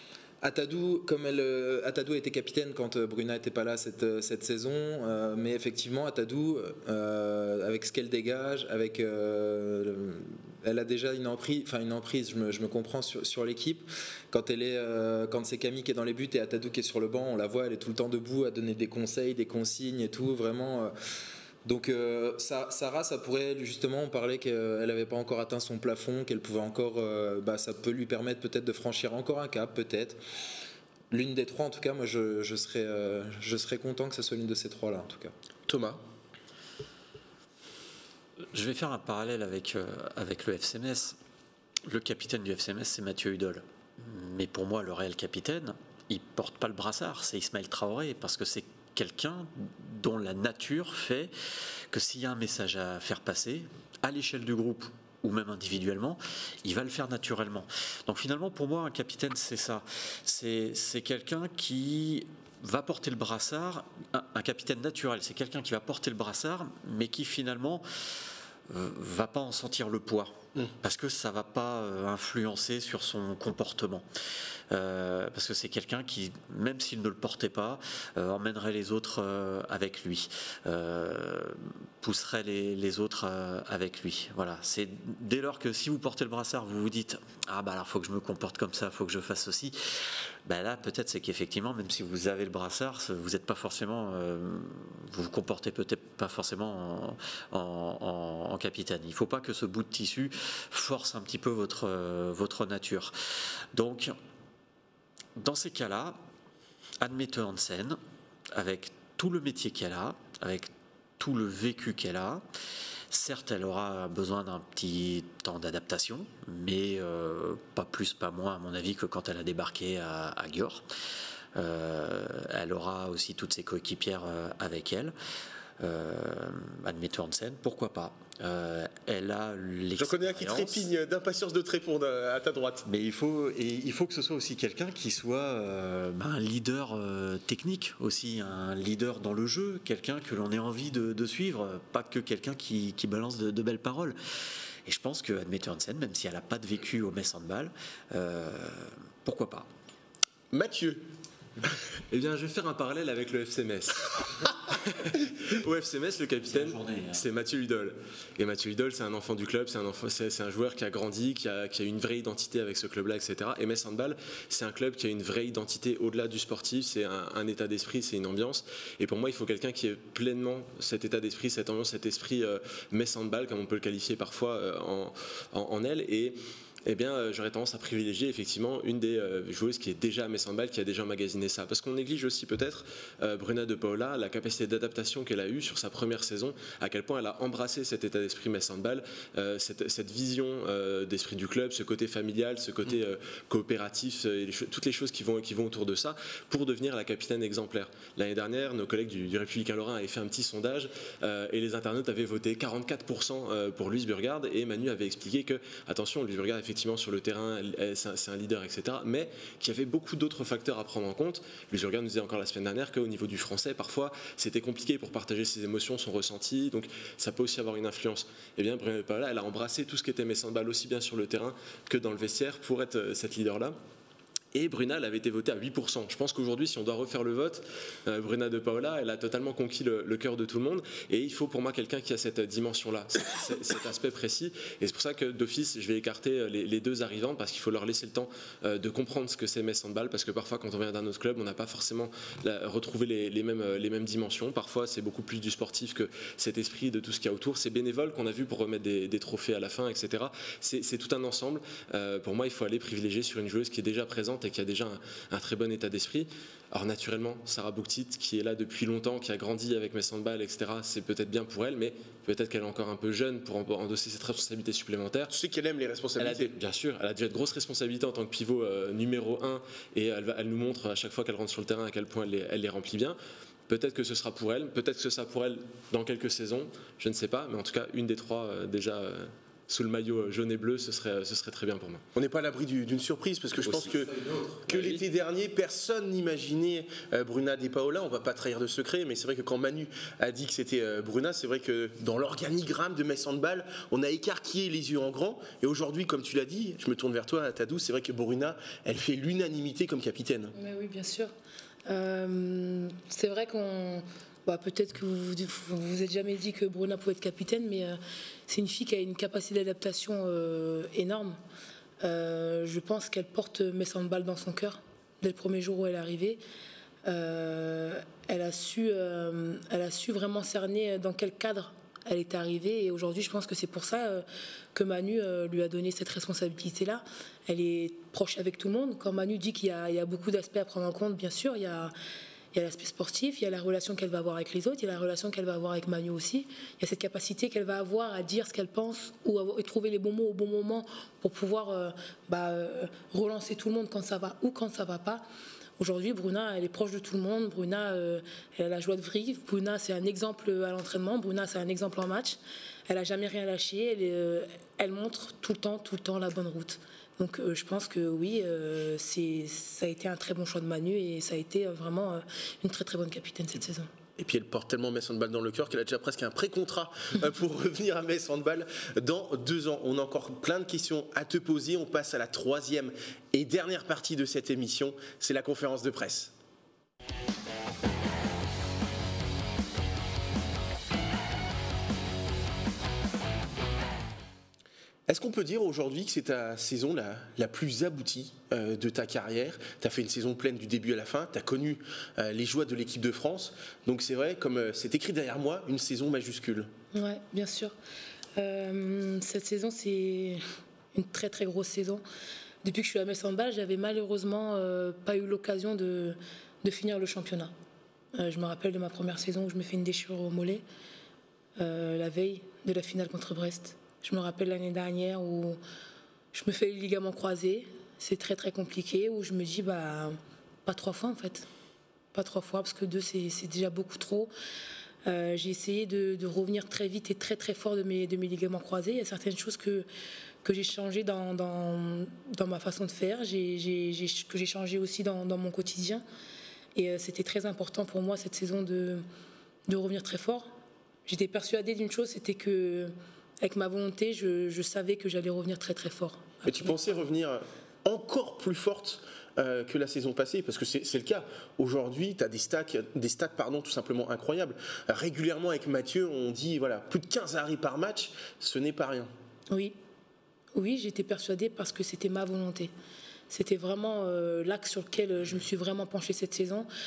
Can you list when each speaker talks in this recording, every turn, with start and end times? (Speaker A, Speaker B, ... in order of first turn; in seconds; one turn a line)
Speaker A: 0.4-20.9
Speaker A: 21.6-30.2
Speaker A: 31.1-35.3
Speaker B: 35.7-36.0
Speaker C: 38.5-41.2
Speaker C: 41.9-51.3
Speaker C: 51.9-67.8
Speaker C: 68.7-74.0
Speaker C: 74.7-89.8
Speaker C: 90.4-103.1
Speaker C: 103.7-104.1
Speaker C: 105.3-106.2
Speaker C: 107.0-108.0
Speaker C: 108.5-112.4
Speaker C: 113.1-120.8
Speaker C: 121.5-125.1
Speaker C: 125.8-130.9
Speaker B: 130.0-132.8
Speaker C: 132.8-144.2
Speaker C: 144.8-149.7
Speaker B: 150.5-151.1
Speaker D: 152.1-223.8
Speaker C: 156.4-157.2
Speaker D: 224.5-265.3
Speaker B: 265.3-266.5
Speaker D: 266.2-273.2
Speaker D: 273.7-282.0
Speaker B: 282.1-284.1
Speaker A: 283.6-285.0
Speaker B: 284.7-300.5
Speaker E: 300.5-301.3
Speaker E: 301.9-311.4
Speaker E: 312.0-316.4
Speaker E: 317.0-331.9
Speaker E: 332.5-345.2
Speaker E: 345.8-363.9
Speaker B: 364.2-376.3
Speaker B: 385.1-396.7
Speaker E: 396.9-397.7
Speaker E: 398.4-400.4
Speaker E: 400.9-402.0
Speaker E: 402.6-407.5
Speaker E: 408.1-410.6
Speaker E: 411.6-415.6
Speaker E: 416.3-421.5
Speaker E: 422.1-424.3
Speaker E: 425.1-429.9
Speaker E: 430.4-436.0
Speaker E: 436.7-439.0
Speaker E: 439.7-440.5
Speaker E: 441.1-446.7
Speaker B: 446.4-459.1
Speaker E: 459.5-459.8
Speaker E: 460.5-462.7
Speaker E: 463.3-466.7